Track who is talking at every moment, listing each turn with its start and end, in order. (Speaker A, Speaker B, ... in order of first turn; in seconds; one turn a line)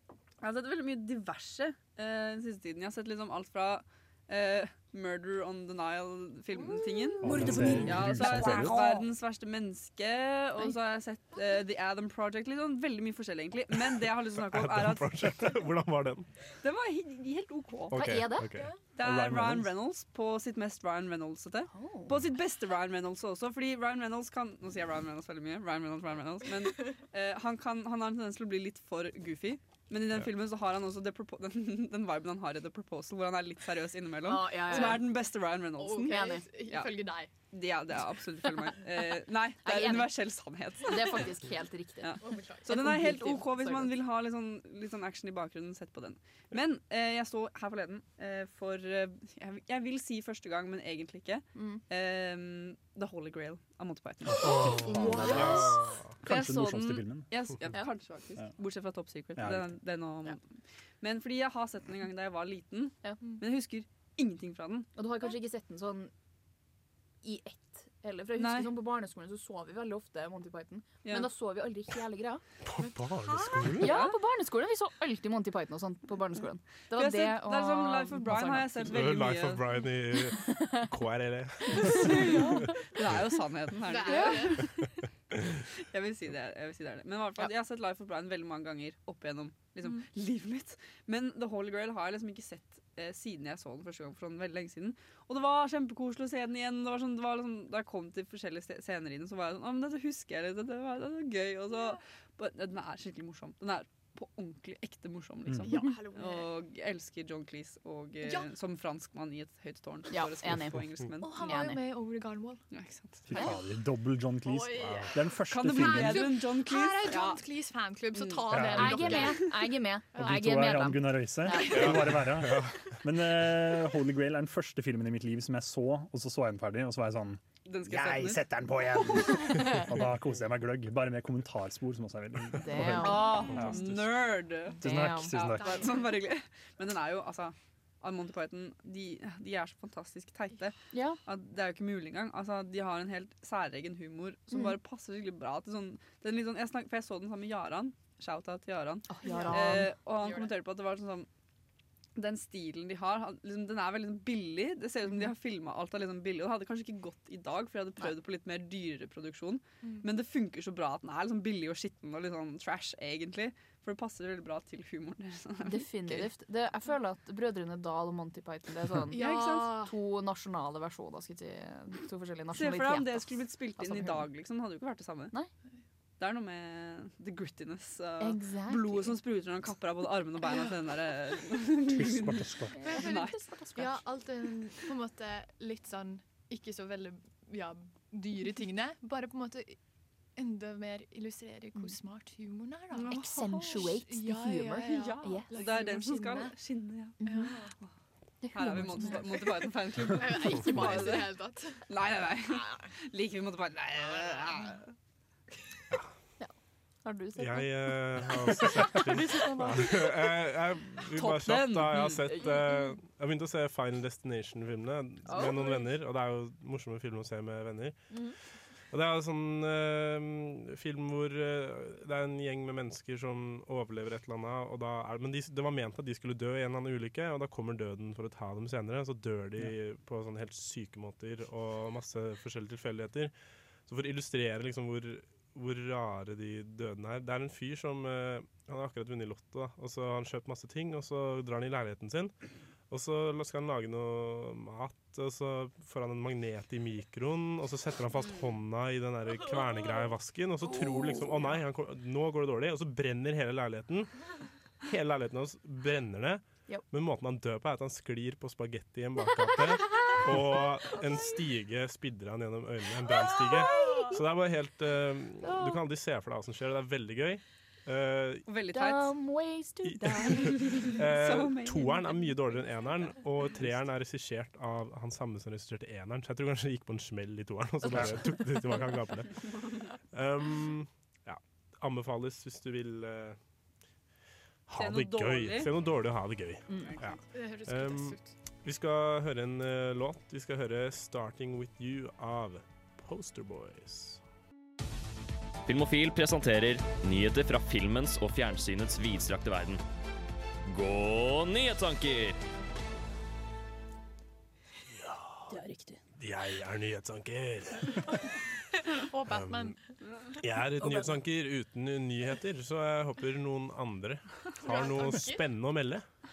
Speaker A: 0.4-15.4
Speaker B: 6.6-7.2
Speaker C: 7.2-9.1
Speaker D: 7.2-8.9
Speaker E: 14.5-16.3
Speaker A: 16.6-18.0
Speaker E: 17.9-18.7
Speaker C: 17.9-18.5
Speaker A: 18.9-36.9
Speaker D: 19.0-19.7
Speaker C: 21.7-22.2
Speaker C: 34.2-35.1
Speaker B: 34.6-35.0
Speaker B: 35.8-37.3
Speaker C: 36.0-36.5
Speaker A: 37.5-41.3
Speaker C: 39.6-40.1
Speaker C: 40.8-43.9
Speaker A: 42.0-54.8
Speaker B: 42.2-43.3
Speaker C: 51.5-51.8
Speaker D: 54.3-55.7
Speaker C: 54.4-55.8
Speaker E: 55.3-56.1
Speaker D: 56.2-57.3
Speaker A: 56.2-60.4
Speaker D: 59.4-59.7
Speaker A: 61.0-64.9
Speaker C: 65.0-66.1
Speaker C: 67.2-72.4
Speaker A: 68.4-68.7
Speaker E: 72.6-74.0
Speaker B: 73.2-73.8
Speaker A: 73.6-74.2
Speaker C: 73.7-78.9
Speaker A: 76.9-79.7
Speaker E: 78.8-82.7
Speaker C: 80.4-80.9
Speaker C: 81.7-82.7
Speaker A: 81.8-84.7
Speaker B: 83.8-84.8
Speaker C: 84.0-84.6
Speaker E: 85.3-85.6
Speaker A: 85.9-111.7
Speaker B: 105.6-106.5
Speaker B: 108.2-108.5
Speaker C: 110.1-110.8
Speaker B: 111.2-112.6
Speaker C: 111.4-111.8
Speaker A: 112.7-113.3
Speaker D: 113.3-116.4
Speaker B: 114.4-119.5
Speaker E: 114.8-115.1
Speaker A: 115.5-117.4
Speaker A: 118.1-119.2
Speaker D: 118.5-119.4
Speaker C: 118.6-122.0
Speaker D: 120.1-134.2
Speaker E: 121.7-122.9
Speaker A: 127.7-128.5
Speaker C: 132.6-133.5
Speaker A: 133.0-151.3
Speaker D: 134.8-135.8
Speaker C: 134.8-135.3
Speaker B: 135.5-136.2
Speaker C: 140.9-141.2
Speaker C: 149.1-149.9
Speaker B: 149.2-150.5
Speaker A: 152.2-166.3
Speaker C: 165.6-174.3
Speaker B: 169.1-169.9
Speaker A: 169.1-169.8
Speaker A: 172.5-175.3
Speaker A: 176.2-183.4
Speaker C: 178.2-179.2
Speaker D: 181.8-182.8
Speaker C: 182.8-184.0
Speaker B: 182.8-189.8
Speaker B: 190.3-196.5
Speaker A: 192.9-193.9
Speaker C: 193.1-195.5
Speaker A: 194.9-197.2
Speaker B: 197.2-197.7
Speaker C: 197.2-197.5
Speaker C: 198.4-199.4
Speaker A: 198.5-201.3
Speaker B: 198.9-199.5
Speaker B: 200.0-201.8
Speaker A: 201.9-204.9
Speaker B: 202.5-202.8
Speaker C: 207.0-207.9
Speaker E: 207.4-218.0
Speaker C: 208.6-209.7
Speaker B: 208.9-209.9
Speaker A: 211.1-212.3
Speaker C: 215.2-215.8
Speaker E: 218.9-233.3
Speaker E: 233.9-242.3
Speaker E: 242.9-254.1
Speaker C: 250.6-251.6
Speaker E: 254.8-268.4
Speaker C: 263.5-264.2
Speaker C: 265.4-265.8
Speaker A: 268.5-269.1
Speaker C: 268.7-270.8
Speaker E: 269.8-283.4
Speaker A: 270.5-272.4
Speaker D: 277.9-278.1
Speaker E: 284.7-294.2
Speaker A: 284.7-285.7
Speaker A: 286.7-287.2
Speaker B: 287.3-288.3
Speaker F: 295.6-299.8
Speaker F: 300.7-302.4
Speaker E: 305.0-305.5
Speaker C: 305.5-306.0
Speaker E: 306.2-308.1
Speaker B: 308.9-309.8
Speaker E: 309.3-309.7
Speaker E: 310.4-316.0
Speaker C: 310.8-311.1
Speaker B: 314.6-315.4